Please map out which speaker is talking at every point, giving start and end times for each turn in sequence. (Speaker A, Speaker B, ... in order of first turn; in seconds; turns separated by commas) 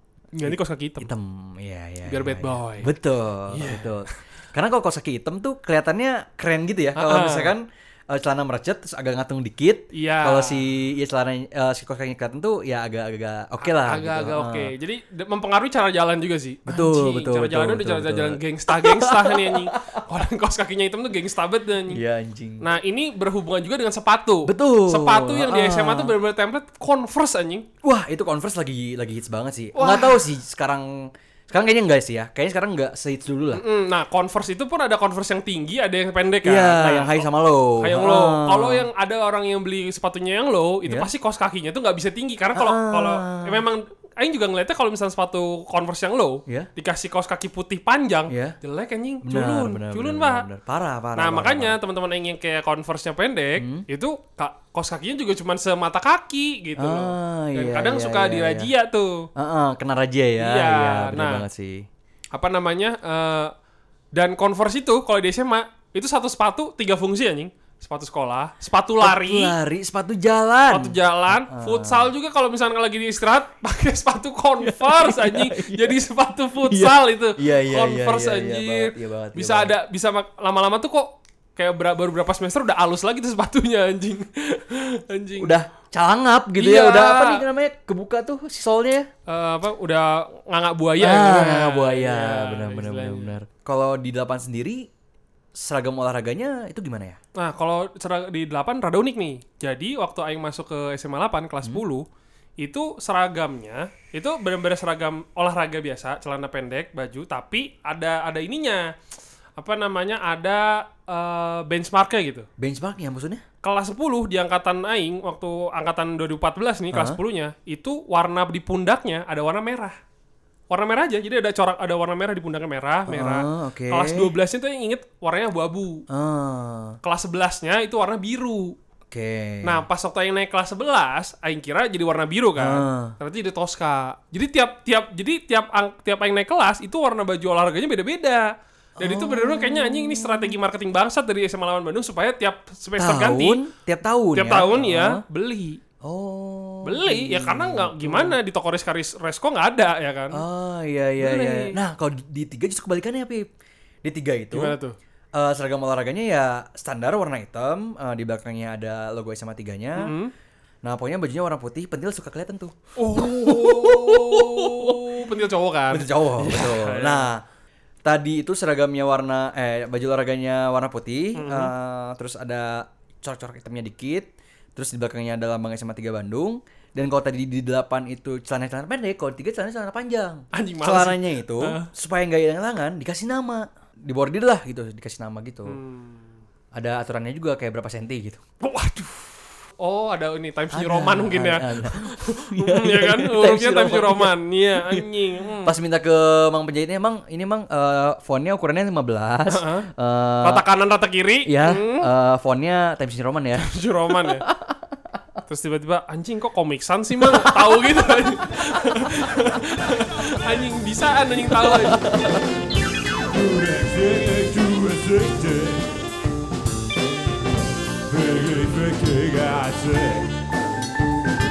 Speaker A: 0.3-1.1, Speaker B: 0.4-14.7, Speaker A: 2.1-2.9, Speaker A: 3.5-4.0, Speaker A: 7.0-7.5, Speaker A: 9.9-10.6, Speaker A: 13.6-22.0, Speaker B: 16.7-20.0, Speaker B: 21.9-22.6, Speaker A: 22.6-27.7, Speaker B: 24.4-26.1, Speaker B: 27.8-33.6, Speaker A: 29.7-30.2, Speaker A: 33.5-37.2, Speaker B: 36.4-38.9, Speaker A: 37.8-50.5, Speaker B: 42.5-43.6, Speaker B: 48.3-48.6, Speaker B: 49.2-51.8, Speaker A: 51.1-59.2, Speaker B: 53.6-53.9, Speaker B: 56.8-58.7, Speaker B: 59.4-61.9, Speaker A: 60.4-61.4, Speaker A: 62.3-63.5, Speaker A: 64.1-69.5, Speaker B: 69.0-72.1, Speaker A: 70.7-85.6, Speaker B: 74.6-76.0, Speaker B: 76.6-79.7, Speaker B: 85.4-89.1, Speaker A: 86.6-87.4, Speaker A: 89.3-93.3, Speaker B: 91.0-94.9, Speaker B: 95.5-97.2, Speaker A: 97.4-102.0, Speaker A: 102.6-108.9, Speaker A: 109.6-112.5, Speaker B: 112.6-113.4, Speaker A: 113.6-120.0, Speaker B: 116.9-117.2, Speaker A: 120.7-126.0, Speaker B: 123.1-124.3, Speaker B: 126.1-127.0, Speaker A: 127.0-128.8, Speaker B: 129.1-129.8, Speaker A: 129.6-138.5, Speaker B: 132.6-133.1, Speaker B: 139.0-140.6, Speaker A: 139.0-143.6, Speaker B: 143.0-145.2, Speaker A: 144.3-145.8, Speaker B: 146.0-148.4, Speaker A: 146.8-150.4, Speaker B: 150.3-153.4, Speaker A: 151.2-151.8, Speaker B: 154.0-154.8, Speaker A: 154.5-154.9, Speaker B: 155.3-160.1, Speaker A: 160.0-160.3, Speaker B: 160.8-165.2, Speaker A: 163.0-167.3, Speaker B: 165.9-167.4, Speaker B: 168.0-185.8, Speaker A: 171.3-171.7, Speaker A: 180.5-181.9, Speaker A: 185.7-186.4, Speaker B: 186.7-188.4, Speaker A: 188.6-195.7, Speaker B: 190.7-195.1, Speaker B: 195.6-200.6, Speaker A: 199.5-199.9, Speaker A: 200.4-202.1, Speaker B: 201.4-203.7, Speaker A: 203.6-204.4, Speaker B: 204.3-204.8, Speaker A: 205.5-212.3, Speaker B: 207.2-209.6, Speaker B: 211.5-212.4, Speaker C: 213.2-215.9, Speaker C: 218.1-220.3